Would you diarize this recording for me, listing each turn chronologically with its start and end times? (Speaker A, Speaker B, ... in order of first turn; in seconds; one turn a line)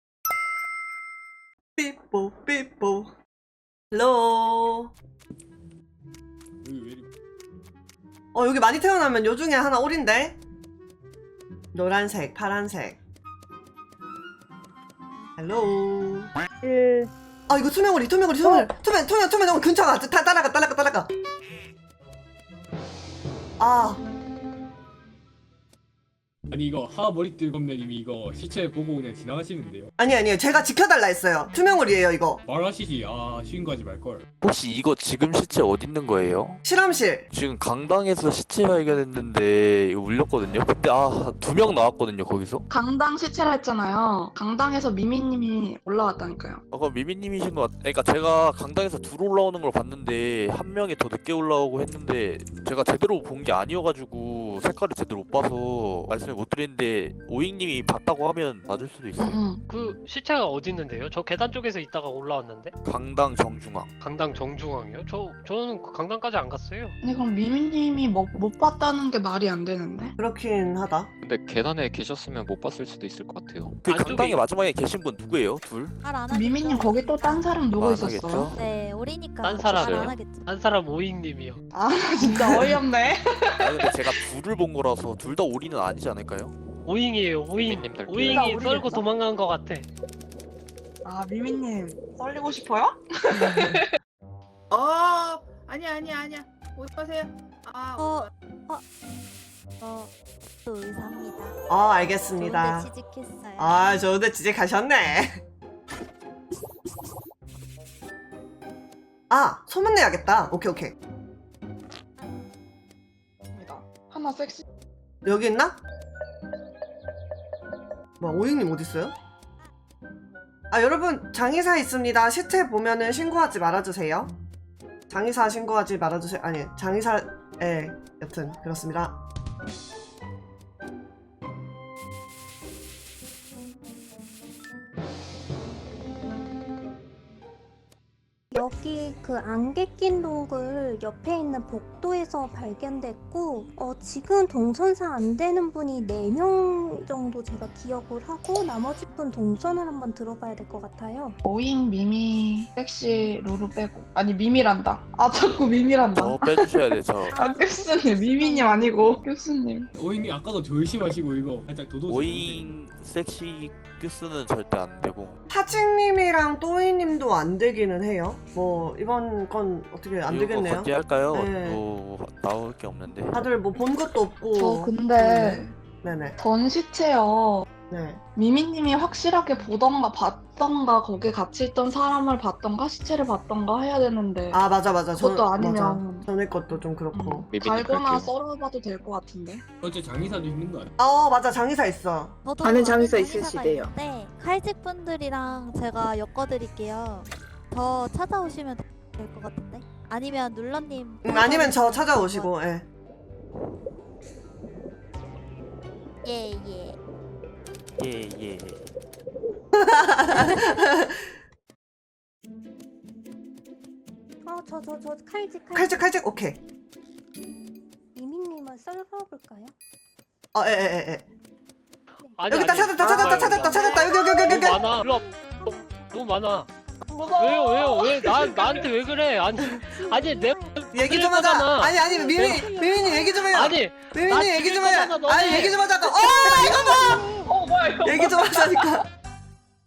Speaker A: 1.8-3.1
Speaker A: 3.9-4.9
Speaker B: 6.6-7.1
Speaker A: 8.3-10.4
Speaker A: 11.7-13.0
Speaker A: 15.4-16.3
Speaker A: 17.5-21.1
Speaker A: 23.6-24.0
Speaker B: 26.5-29.9
Speaker A: 30.0-32.4
Speaker B: 32.5-34.2
Speaker C: 34.4-36.6
Speaker A: 36.6-37.3
Speaker C: 37.3-42.6
Speaker D: 42.7-46.6
Speaker C: 46.7-59.4
Speaker D: 59.2-59.6
Speaker E: 59.7-62.7
Speaker C: 62.8-63.9
Speaker E: 64.0-66.9
Speaker D: 67.0-70.1
Speaker A: 70.2-71.1
Speaker F: 71.2-73.8
Speaker C: 73.8-75.9
Speaker E: 73.9-74.4
Speaker G: 76.0-77.6
Speaker D: 76.3-78.5
Speaker C: 77.8-78.6
Speaker G: 78.5-80.4
Speaker E: 79.4-81.6
Speaker F: 79.7-80.2
Speaker D: 81.7-84.3
Speaker A: 82.2-82.6
Speaker C: 83.6-86.6
Speaker E: 86.8-89.9
Speaker F: 87.6-88.8
Speaker D: 88.3-89.0
Speaker D: 91.0-93.9
Speaker H: 94.7-98.3
Speaker G: 98.0-98.8
Speaker G: 99.8-100.1
Speaker G: 100.6-101.5
Speaker A: 101.7-102.9
Speaker G: 102.3-103.8
Speaker A: 103.6-105.4
Speaker A: 109.3-110.9
Speaker D: 113.5-114.6
Speaker A: 115.2-115.8
Speaker A: 118.2-119.1
Speaker A: 120.7-124.3
Speaker A: 125.1-129.2
Speaker I: 138.5-151.4
Speaker D: 151.4-159.9
Speaker C: 156.1-157.4
Speaker I: 157.5-159.0
Speaker B: 160.0-162.7
Speaker C: 162.1-165.4
Speaker A: 165.5-171.8
Speaker C: 170.2-173.4
Speaker A: 173.3-176.4
Speaker D: 174.5-175.7
Speaker D: 176.4-177.7
Speaker A: 177.9-178.2
Speaker D: 178.3-184.6
Speaker A: 184.5-187.5
Speaker D: 185.2-186.3
Speaker D: 187.1-189.6
Speaker F: 187.4-188.3
Speaker B: 189.8-190.9
Speaker A: 191.0-192.4
Speaker G: 192.4-202.5
Speaker H: 192.6-193.9
Speaker A: 201.2-202.8
Speaker G: 206.2-207.0
Speaker C: 208.0-208.8
Speaker A: 209.7-211.2
Speaker G: 210.3-210.7
Speaker I: 214.4-216.1
Speaker A: 215.7-216.6
Speaker I: 218.1-219.7
Speaker A: 220.5-221.2
Speaker E: 222.4-232.7
Speaker A: 222.5-224.9
Speaker I: 223.1-226.3
Speaker D: 227.3-228.9
Speaker I: 229.9-230.9
Speaker A: 230.9-237.3
Speaker I: 231.9-233.7
Speaker E: 233.5-235.8
Speaker D: 236.1-236.4
Speaker I: 236.4-237.5
Speaker D: 237.4-239.0
Speaker A: 238.0-239.0